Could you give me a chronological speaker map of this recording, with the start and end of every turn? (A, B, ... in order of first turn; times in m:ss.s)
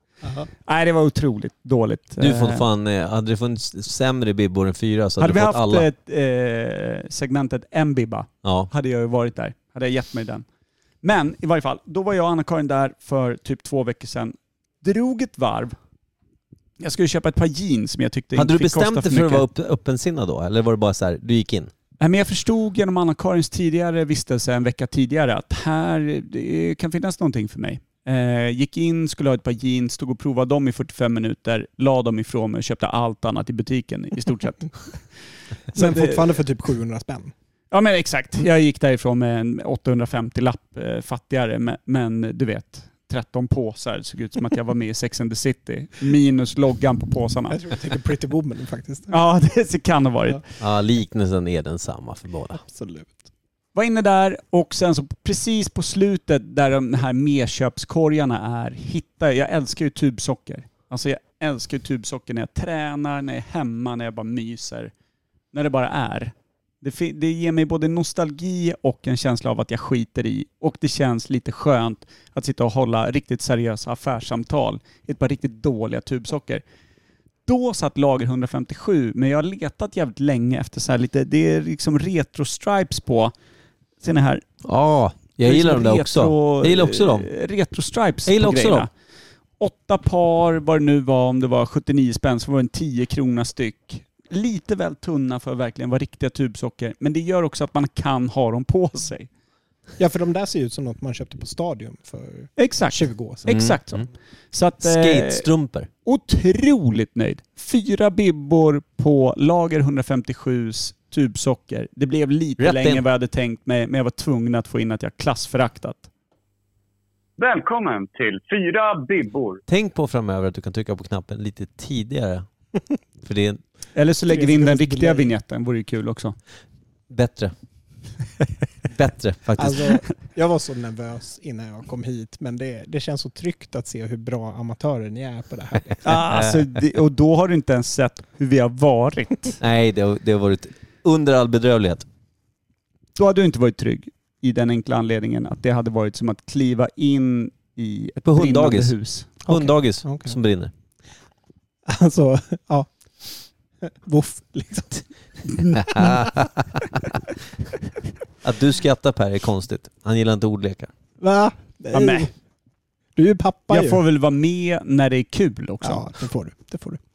0:00.6-0:02.6 A
0:02.2-0:05.8 B
0:05.2-0:10.4 A
0:08.4-0:08.7 B
0:11.0-0:15.8 A
0:16.8-0:19.4 A
0:18.3-0:21.7 B
0:22.0-0:35.0 A
0:35.7-0:36.2 A
0:35.7-0:37.3 C
0:37.7-0:47.6 A
0:47.5-0:49.2 C
0:49.1-0:50.4 A
0:50.6-0:52.6 B
0:52.5-0:53.2 C
0:53.7-1:04.9 A
1:05.5-1:16.6 A
1:17.4-1:23.3 A
1:24.0-1:24.4 A
1:24.6-1:27.3 B
1:25.4-1:28.9 A
1:28.2-1:28.9 B
1:29.6-1:39.3 A
1:40.0-1:43.6 C
1:42.6-1:45.4 A
1:43.5-1:44.0 B
1:44.8-1:45.9 B
1:46.0-1:56.1 A
1:52.6-1:53.0 B
1:57.4-1:59.6 D
1:59.7-2:02.4 B
2:03.2-2:03.6 B
2:03.9-2:06.4 A
2:04.3-2:05.3 C
2:07.1-2:07.5 B
2:08.9-2:10.0 B
2:09.6-2:16.0 C
2:16.0-2:19.6 A
2:19.6-2:22.0 B
2:23.2-2:29.3 A
2:28.2-2:30.7 B
2:29.4-2:30.3 C
2:31.8-2:35.1 C
2:35.7-2:36.5 B
2:36.0-2:36.3 C
2:38.4-2:40.9 B
2:41.2-2:42.3 C
2:41.9-2:42.3 A
2:43.2-2:44.0 C
2:43.7-2:46.1 A
2:45.8-2:47.0 C